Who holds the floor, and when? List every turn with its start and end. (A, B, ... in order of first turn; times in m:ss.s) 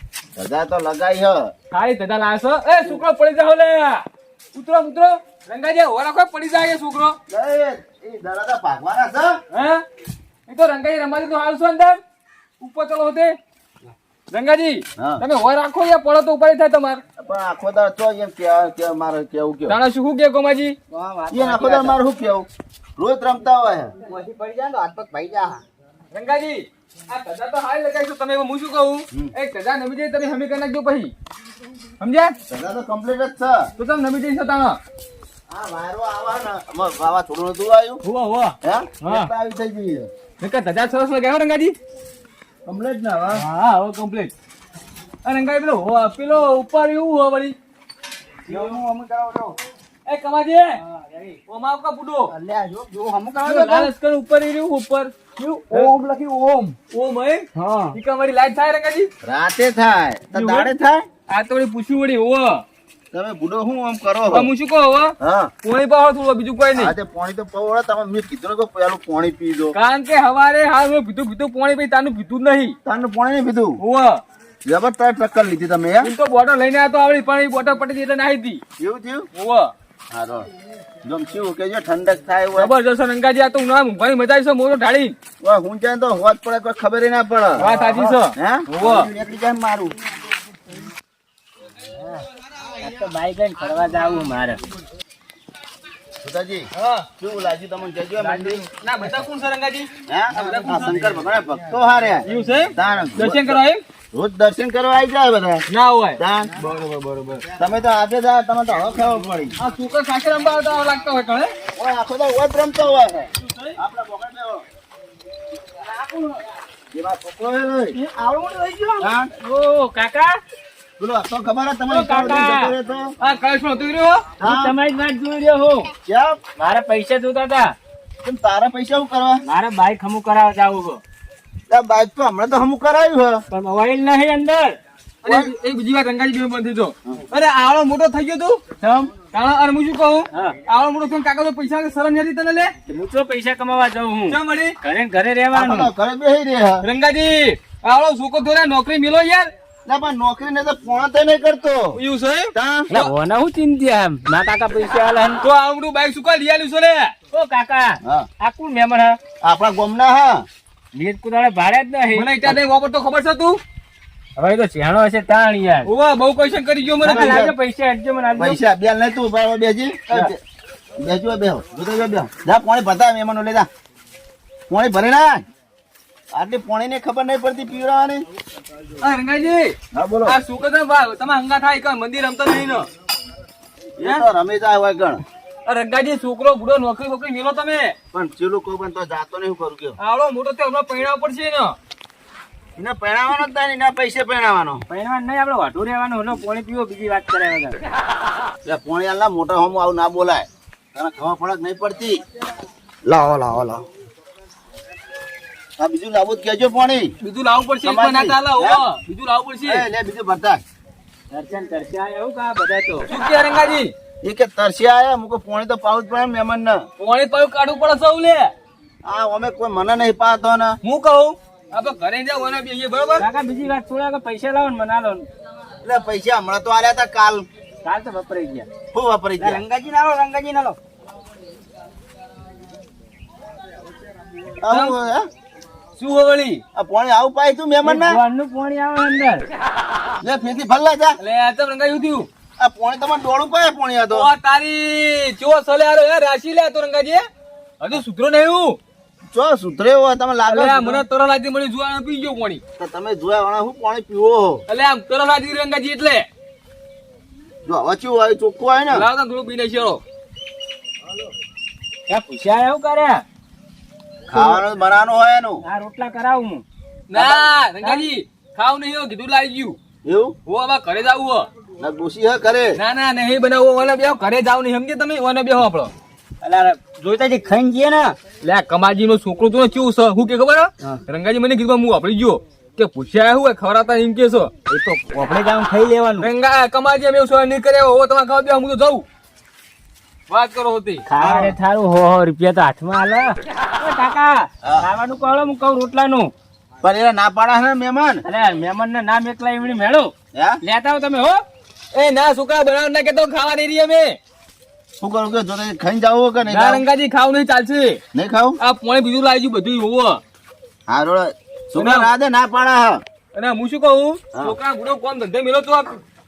0:00.4-0:01.5 A
0:01.7-0:07.2 B
0:07.3-0:09.4 A
0:09.5-0:09.8 B
0:10.5-0:12.0 B
0:12.6-0:13.4 B
0:14.3-0:17.0 B
0:15.0-0:15.2 A
0:17.2-0:19.8 A
0:19.7-0:20.8 B
0:20.9-0:22.0 C
0:21.3-0:24.0 A
0:24.1-0:25.6 C
0:26.1-0:31.1 B
0:32.0-0:32.4 B
0:32.5-0:33.7 A
0:33.8-0:34.8 B
0:35.5-0:38.0 A
0:38.0-0:39.3 B
0:38.6-0:40.1 A
0:40.4-0:41.8 B
0:42.6-0:43.4 A
0:43.3-0:44.3 B
0:45.2-0:47.6 B
0:48.5-0:48.8 C
0:48.5-0:48.8 A
0:50.1-0:50.8 B
0:50.9-0:51.4 C
0:51.5-0:52.3 B
0:52.4-0:53.9 C
0:53.4-0:55.2 B
0:55.4-0:56.0 C
0:56.9-0:59.1 B
0:57.6-0:58.0 C
0:59.2-1:01.1 A
1:00.3-1:00.7 B
1:01.3-1:02.6 B
1:03.1-1:04.5 A
1:04.3-1:07.0 B
1:05.2-1:05.5 A
1:06.7-1:09.8 A
1:09.7-1:12.8 B
1:12.8-1:13.8 A
1:13.8-1:14.2 B
1:14.6-1:16.1 A
1:16.0-1:18.6 B
1:18.8-1:19.3 A
1:19.3-1:19.7 B
1:20.1-1:20.5 A
1:21.0-1:22.7 A
1:22.6-1:25.2 B
1:25.4-1:30.0 A
1:27.6-1:29.1 B
1:32.8-1:34.6 C
1:36.2-1:38.6 A
1:36.8-1:37.1 B
1:38.7-1:41.2 B
1:40.1-1:43.6 A
1:42.2-1:43.8 B
1:44.1-1:45.7 A
1:45.7-1:47.4 B
1:46.2-1:46.6 A
1:47.6-1:49.6 A
1:49.6-1:51.5 B
1:51.7-1:54.6 A
1:55.9-1:56.4 C
1:56.9-1:58.0 A
1:58.7-1:59.1 A
1:59.0-2:00.4 C
2:01.0-2:03.1 A
2:01.9-2:02.8 C
2:03.2-2:04.3 B
2:04.4-2:04.8 A
2:04.4-2:05.9 C
2:06.0-2:06.4 A
2:06.6-2:07.8 C
2:08.2-2:09.4 A
2:09.4-2:11.0 C
2:11.7-2:13.4 A
2:13.5-2:14.8 C
2:15.2-2:18.6 B
2:15.2-2:15.5 A
2:18.8-2:19.1 C
2:19.3-2:22.7 B
2:22.9-2:25.9 C
2:24.3-2:24.8 B
2:25.5-2:26.8 A
2:26.8-2:29.5 B
2:29.9-2:32.0 A
2:32.0-2:32.5 B
2:32.5-2:33.1 A
2:32.9-2:35.4 C
2:35.4-2:37.2 B
2:37.3-2:39.2 C
2:38.0-2:38.3 A
2:39.4-2:40.5 A
2:40.9-2:42.5 C
2:42.1-2:43.6 B
2:44.4-2:45.9 C
2:45.8-2:47.4 B
2:47.0-2:47.6 A
2:47.0-2:48.6 C
2:48.4-2:50.4 A
2:51.0-2:53.7 A
2:54.7-2:55.4 A
2:56.3-2:58.3 A
2:59.0-3:02.9 B
2:59.9-3:00.4 A
3:04.0-3:05.2 A
3:05.7-3:08.0 B
3:08.1-3:10.0 A
3:10.0-3:11.8 B
3:12.8-3:14.8 A
3:14.9-3:17.8 C
3:18.6-3:22.2 A
3:23.1-3:23.7 A
3:25.8-3:27.1 A
3:27.2-3:29.9 B
3:27.8-3:28.8 A
3:29.6-3:30.6 A
3:31.3-3:33.1 C
3:33.1-3:33.9 B
3:34.2-3:36.9 A
3:37.0-3:38.5 B
3:39.0-3:40.8 A
3:40.8-3:43.3 B
3:43.2-3:45.3 C
3:45.8-3:47.5 A
3:47.8-3:48.7 C
3:48.9-3:49.6 A
3:49.4-3:50.8 C
3:54.6-3:55.3 A
3:54.7-3:55.0 B
3:56.0-3:56.6 B
3:56.8-3:58.2 A
3:57.8-3:59.5 C
4:00.2-4:01.2 A
4:01.2-4:02.3 B
4:02.6-4:04.3 A
4:04.1-4:07.3 B
4:07.8-4:08.8 B
4:09.3-4:11.0 A
4:10.5-4:12.6 B
4:12.8-4:14.6 A
4:14.7-4:16.3 B
4:17.7-4:19.1 A
4:18.9-4:20.0 B
4:22.1-4:23.2 C
4:24.3-4:25.6 A
4:24.3-4:24.6 C
4:25.6-4:26.6 C
4:27.1-4:29.8 B
4:27.1-4:27.5 A
4:30.0-4:30.4 A
4:30.5-4:31.5 B
4:31.8-4:32.8 A
4:32.8-4:35.9 B
4:36.4-4:38.2 C
4:38.4-4:44.5 B
4:44.7-4:46.3 C
4:46.2-4:49.1 B
4:50.3-4:51.0 B
4:51.1-4:56.3 C
4:51.2-4:51.6 A
4:56.8-4:58.2 A
4:58.2-5:01.4 C
5:00.3-5:00.6 A
5:01.9-5:04.2 B
5:05.0-5:06.8 A
5:06.5-5:08.0 B
5:08.1-5:08.6 A
5:08.6-5:10.2 B
5:10.9-5:13.0 A
5:11.8-5:12.1 B
5:13.3-5:16.0 B